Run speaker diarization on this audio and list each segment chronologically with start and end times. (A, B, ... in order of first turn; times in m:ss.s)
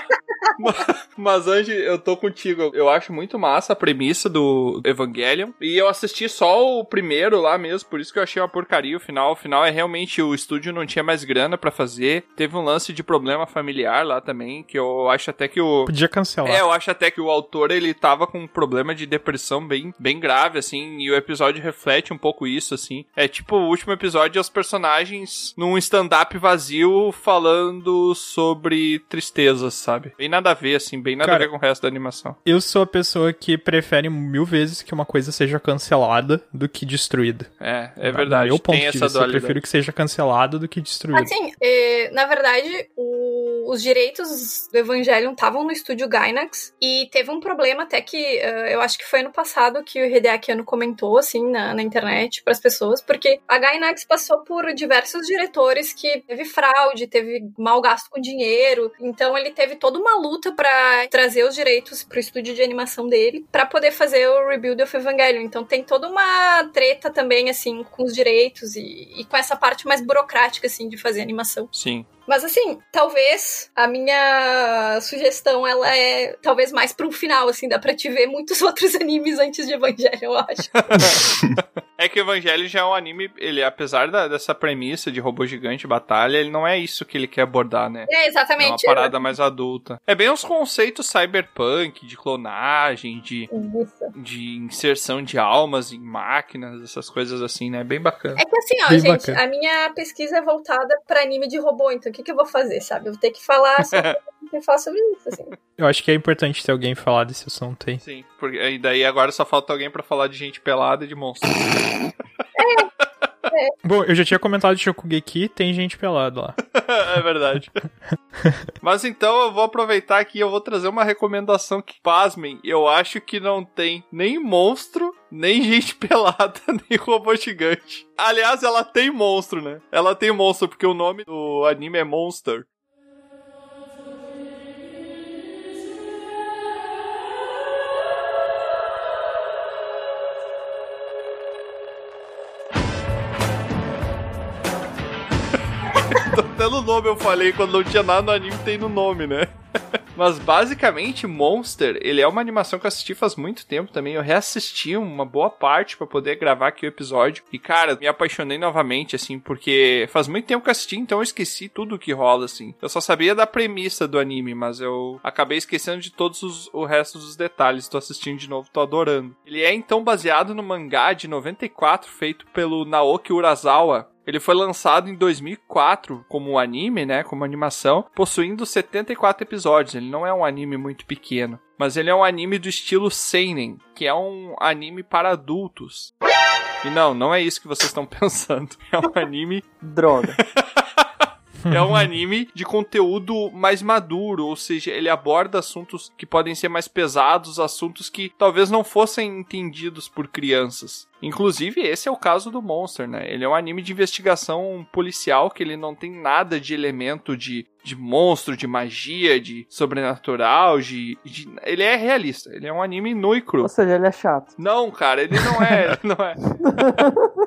0:00.6-0:15.9 A
0:15.9-0:16.6 B
0:16.4-0:32.4 A
0:31.2-0:31.5 B
0:32.5-0:37.5 B
0:37.6-0:39.6 A
0:38.0-0:41.3 B
0:41.1-1:11.7 C
1:11.7-1:12.1 A
1:12.3-1:21.1 C
1:20.8-1:28.1 A
1:28.1-1:29.2 C
1:28.6-1:33.5 A
1:33.5-1:34.1 C
1:34.2-1:38.4 A
1:38.4-1:45.6 C
1:38.9-1:39.4 B
1:43.9-1:44.2 A
1:45.8-1:48.0 B
1:48.0-1:51.8 A
1:52.6-1:52.9 C
1:53.8-1:56.6 B
1:56.8-1:57.7 A
1:58.8-2:12.7 A
2:26.1-2:29.5 A
2:30.2-3:06.1 A
3:06.8-3:09.6 A
3:09.8-3:10.4 D
3:11.6-3:12.0 B
3:11.7-3:33.7 A
3:33.6-3:34.5 D
3:34.6-3:36.6 A
3:36.6-3:37.3 D